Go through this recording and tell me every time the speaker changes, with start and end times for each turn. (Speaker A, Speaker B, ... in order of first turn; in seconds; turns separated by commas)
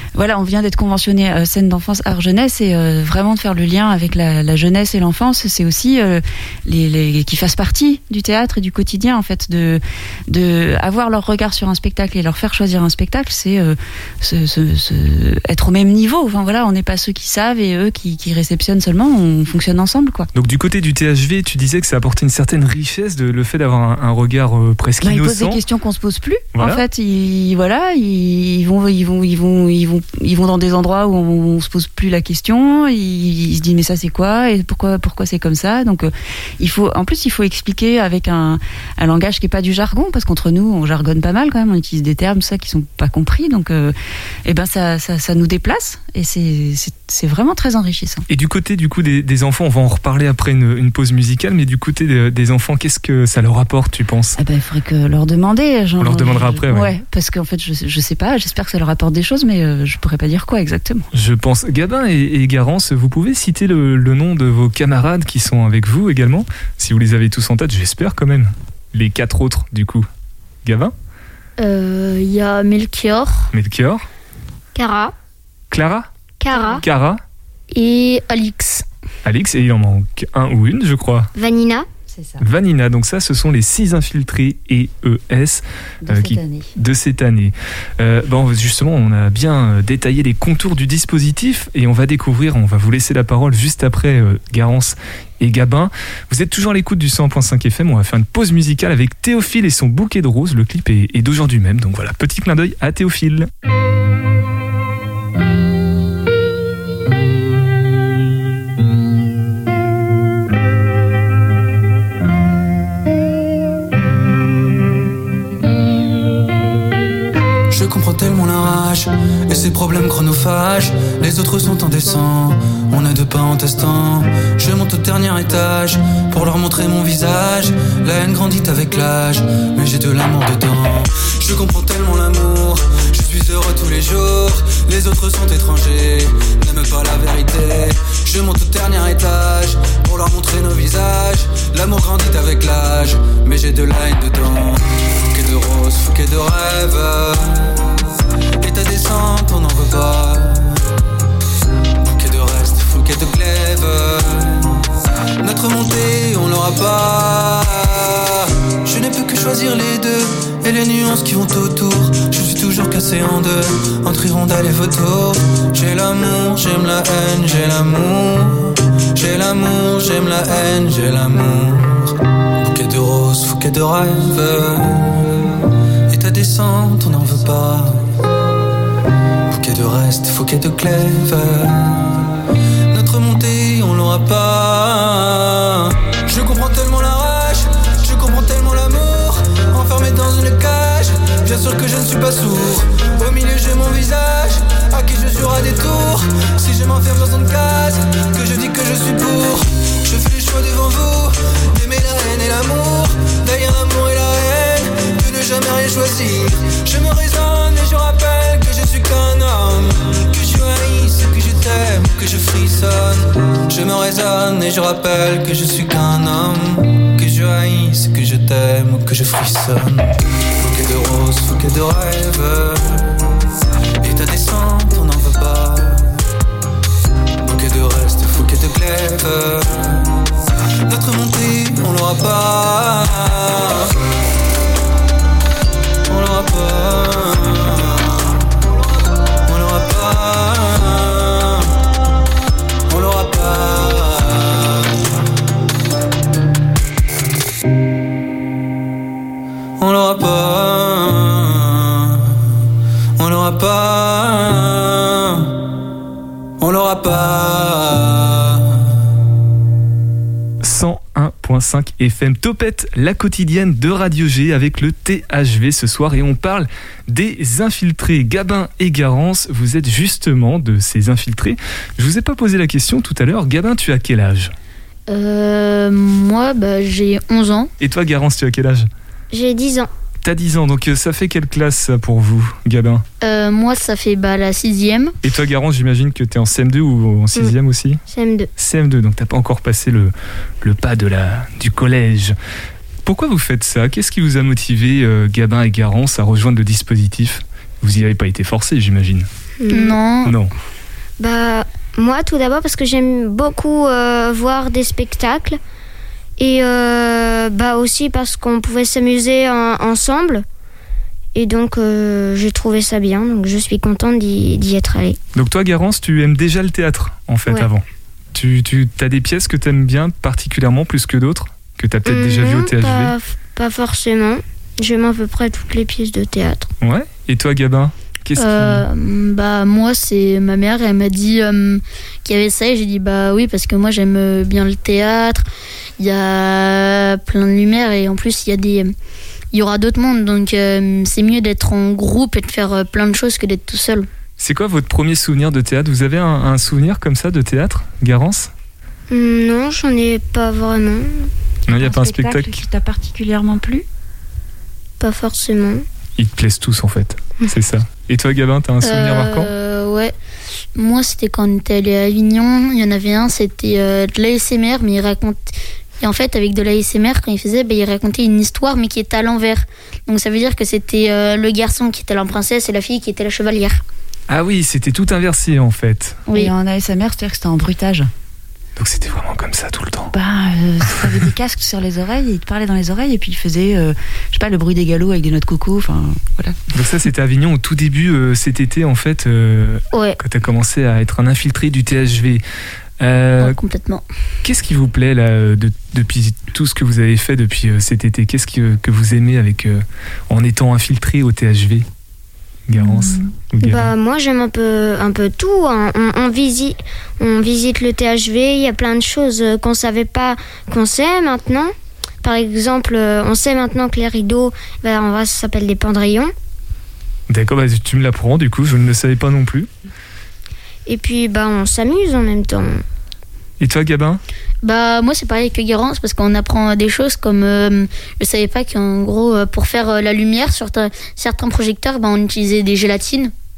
Speaker A: 0.1-20.3, Speaker B: 20.4-25.6, Speaker A: 25.0-48.2, Speaker B: 26.6-26.8, Speaker B: 48.3-54.4, Speaker A: 54.4-61.1, Speaker B: 56.0-56.9, Speaker B: 61.1-70.1, Speaker B: 70.7-70.9, Speaker C: 71.6-73.5, Speaker B: 73.5-74.0, Speaker D: 74.8-75.1, Speaker B: 75.7-77.2, Speaker D: 76.4-76.8, Speaker C: 77.7-78.8, Speaker B: 79.2-81.3, Speaker D: 81.3-81.9, Speaker A: 82.1-82.5, Speaker B: 82.4-103.5, Speaker A: 86.0-86.7, Speaker E: 117.7-147.6, Speaker E: 148.6-150.8, Speaker E: 152.1-154.7, Speaker E: 155.4-175.5, Speaker E: 176.1-178.1, Speaker E: 179.5-182.2, Speaker E: 182.9-223.0, Speaker E: 224.0-226.2, Speaker E: 227.4-230.1, Speaker E: 230.9-233.9, Speaker E: 236.1-238.4, Speaker E: 239.5-241.7, Speaker E: 242.9-244.9, Speaker E: 249.8-252.2, Speaker E: 253.2-255.5, Speaker E: 256.6-258.6, Speaker B: 260.6-274.5, Speaker C: 275.1-277.7, Speaker B: 277.8-278.9, Speaker D: 279.3-279.9, Speaker B: 280.2-283.0, Speaker C: 283.2-285.1, Speaker B: 285.2-288.0, Speaker D: 288.1-288.5, Speaker B: 288.6-292.4, Speaker B: 293.0-299.3, Speaker D: 299.6-300.0, Speaker C: 299.7-300.4, Speaker B: 300.2-300.5, Speaker D: 301.2-305.6, Speaker D: 306.4-310.4, Speaker D: 311.4-315.2, Speaker B: 315.4-323.1, Speaker D: 322.1-326.7, Speaker B: 326.8-328.9, Speaker C: 328.4-335.4, Speaker C: 336.0-338.9, Speaker C: 339.5-344.1, Speaker B: 344.4-348.5, Speaker D: 349.1-351.3, Speaker B: 351.7-352.5, Speaker A: 351.7-353.9, Speaker D: 355.0-355.8, Speaker B: 356.2-359.5, Speaker C: 358.8-360.1, Speaker C: 360.8-373.8, Speaker B: 374.3-376.2, Speaker A: 376.3-378.1, Speaker B: 378.8-380.1, Speaker A: 380.1-386.6, Speaker B: 386.7-392.4, Speaker B: 393.0-393.6, Speaker C: 393.4-394.1, Speaker B: 394.4-401.9, Speaker B: 402.7-403.9, Speaker C: 402.8-403.2, Speaker D: 403.6-411.7, Speaker D: 412.2-416.3, Speaker B: 417.3-419.7, Speaker D: 420.9-422.8, Speaker B: 423.6-424.2, Speaker C: 424.6-433.3